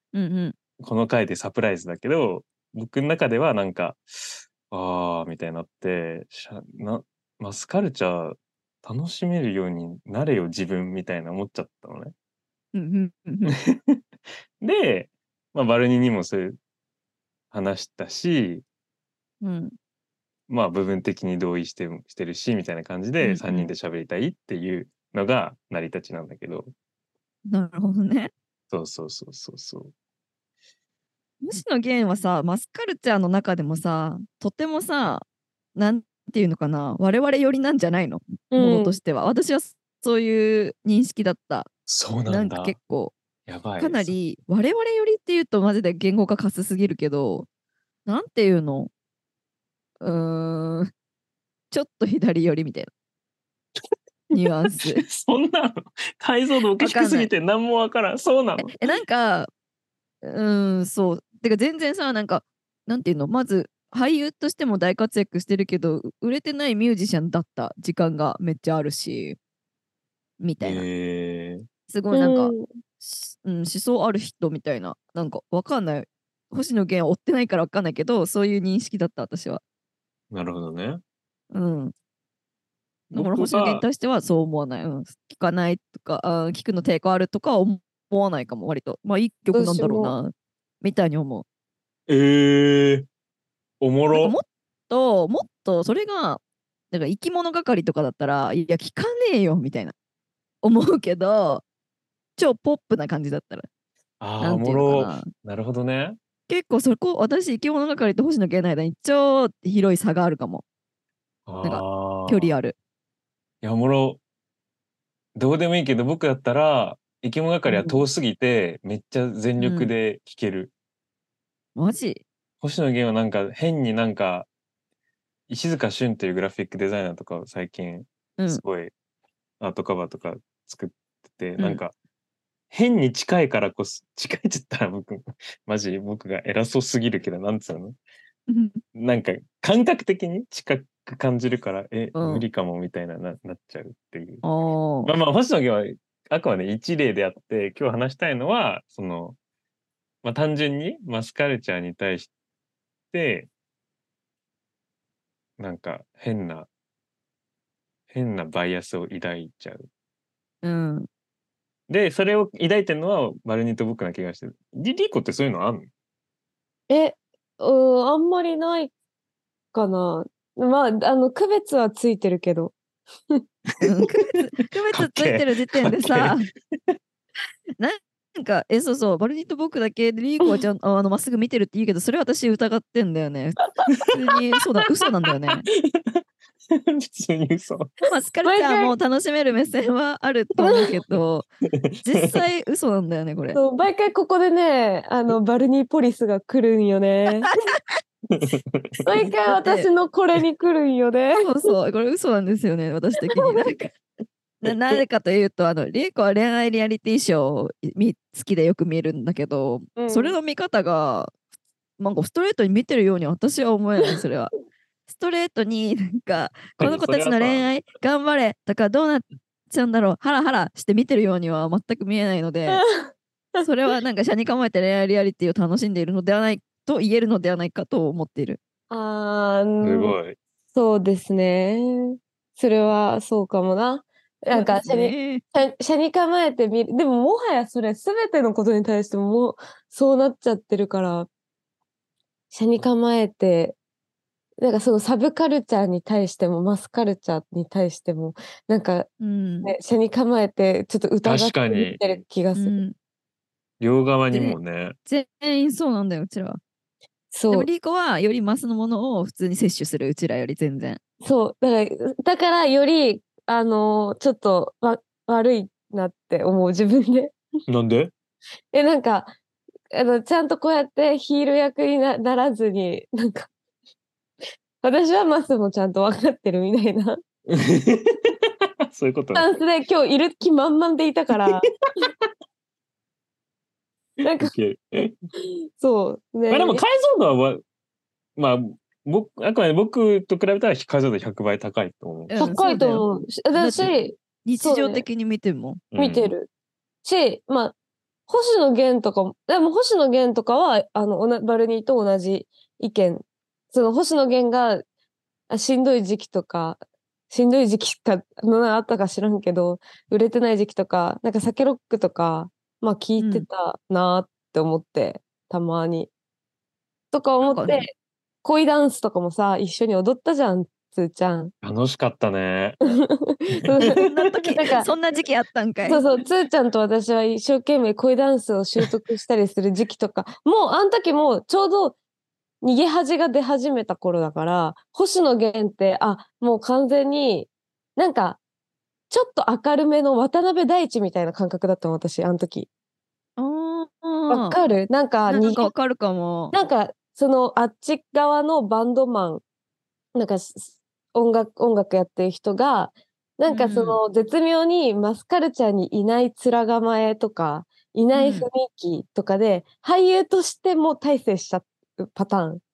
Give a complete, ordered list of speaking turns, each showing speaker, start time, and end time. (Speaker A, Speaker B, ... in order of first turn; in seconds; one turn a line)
Speaker A: 0.1-0.5
Speaker B: 0.8-12.1
Speaker A: 12.7-13.6
Speaker B: 13.5-14.0
Speaker B: 14.6-16.6
Speaker B: 17.5-18.6
Speaker A: 19.4-19.7
Speaker B: 20.5-26.7
Speaker A: 23.2-23.7
Speaker A: 27.5-28.3
Speaker B: 28.7-29.9
Speaker A: 31.4-35.2
Speaker A: 35.8-41.7
Speaker C: 38.5-39.0
Speaker B: 41.9-42.8
Speaker A: 42.3-43.1
Speaker B: 43.5-44.1
Speaker A: 43.8-47.5
Speaker A: 48.0-48.9
Speaker A: 50.0-50.9
Speaker A: 51.7-52.9
Speaker A: 54.3-55.0
Speaker B: 54.3-58.8
Speaker A: 56.8-57.3
Speaker A: 58.6-59.5
Speaker A: 60.2-69.4
Speaker A: 70.4-70.8
Speaker B: 70.6-71.6
Speaker A: 71.9-79.6
Speaker C: 72.1-72.7
Speaker B: 80.3-81.0
Speaker A: 81.5-81.9
Speaker B: 83.1-83.8
Speaker A: 83.1-91.4
Speaker C: 89.5-90.2
Speaker B: 92.1-93.1
Speaker B: 93.8-94.3
Speaker A: 94.1-99.9
Speaker A: 100.6-101.6
Speaker A: 102.4-103.7
Speaker B: 104.2-106.2
Speaker A: 104.4-105.3
Speaker A: 106.5-110.6
Speaker B: 111.5-112.5
Speaker A: 111.6-112.8
Speaker B: 113.6-114.2
Speaker B: 115.3-120.7
Speaker A: 117.7-118.0
Speaker A: 119.6-119.9
Speaker A: 121.8-122.2
Speaker B: 122.6-124.5
Speaker B: 125.5-128.9
Speaker B: 129.6-131.9
Speaker B: 132.7-137.9
Speaker A: 138.5-138.8
Speaker B: 138.9-144.4
Speaker A: 142.1-142.4
Speaker A: 144.4-145.1
Speaker B: 145.0-149.3
Speaker B: 150.2-152.3
Speaker B: 153.1-153.5
Speaker B: 155.6-156.7
Speaker B: 158.1-159.9
Speaker A: 160.6-161.1
Speaker B: 161.9-165.9
Speaker C: 166.9-168.9
Speaker C: 169.7-172.7
Speaker B: 173.8-174.3
Speaker A: 173.8-176.5
Speaker B: 174.9-176.9
Speaker A: 177.8-183.6
Speaker A: 184.1-185.7
Speaker B: 185.7-187.9
Speaker A: 188.1-191.5
Speaker C: 188.4-188.9
Speaker C: 190.6-190.9
Speaker B: 191.9-192.4
Speaker A: 192.0-193.6
Speaker C: 193.5-197.5
Speaker A: 197.4-197.7
Speaker B: 198.3-199.0
Speaker C: 199.0-201.7
Speaker A: 199.6-199.9
Speaker A: 201.4-203.9
Speaker C: 203.3-203.6
Speaker A: 204.6-211.3
Speaker B: 204.7-205.0
Speaker C: 209.9-210.3
Speaker A: 212.0-214.5
Speaker A: 215.1-222.8
Speaker B: 216.8-217.7
Speaker C: 222.7-223.7
Speaker A: 223.6-228.6
Speaker C: 228.9-230.1
Speaker B: 229.8-230.4
Speaker C: 230.7-241.3
Speaker A: 234.5-235.4
Speaker C: 242.5-243.8
Speaker C: 244.6-249.1
Speaker A: 249.2-249.7
Speaker C: 249.6-252.8
Speaker B: 251.2-252.0
Speaker A: 252.5-252.9
Speaker B: 253.8-254.9
Speaker A: 254.3-256.6
Speaker C: 257.3-257.7
Speaker A: 257.5-261.0
Speaker C: 261.2-267.4
Speaker B: 267.7-268.1
Speaker C: 268.7-269.3
Speaker C: 269.9-273.5
Speaker C: 274.8-277.2
Speaker B: 277.5-279.5
Speaker C: 279.3-281.7
Speaker B: 281.5-282.3
Speaker B: 284.2-285.1
Speaker C: 284.2-284.5
Speaker C: 285.4-286.8
Speaker B: 286.5-287.6
Speaker B: 288.4-292.5
Speaker A: 292.3-295.8
Speaker C: 292.4-295.0
Speaker B: 295.9-296.3
Speaker C: 295.9-296.5
Speaker C: 297.0-297.7
Speaker C: 298.3-304.8
Speaker C: 305.5-306.8
Speaker C: 307.3-316.1
Speaker A: 313.2-313.5
Speaker C: 317.1-321.5
Speaker A: 317.4-317.8
Speaker B: 321.6-322.9
Speaker C: 322.8-324.0
Speaker B: 323.6-324.3
Speaker A: 323.8-326.0
Speaker C: 324.5-324.9
Speaker C: 325.9-332.0
Speaker C: 332.6-338.4
Speaker C: 339.1-342.7
Speaker A: 343.4-344.6
Speaker C: 344.3-345.7
Speaker A: 345.3-346.5
Speaker C: 346.5-349.4
Speaker C: 350.1-362.6
Speaker A: 353.5-354.0
Speaker A: 358.1-358.5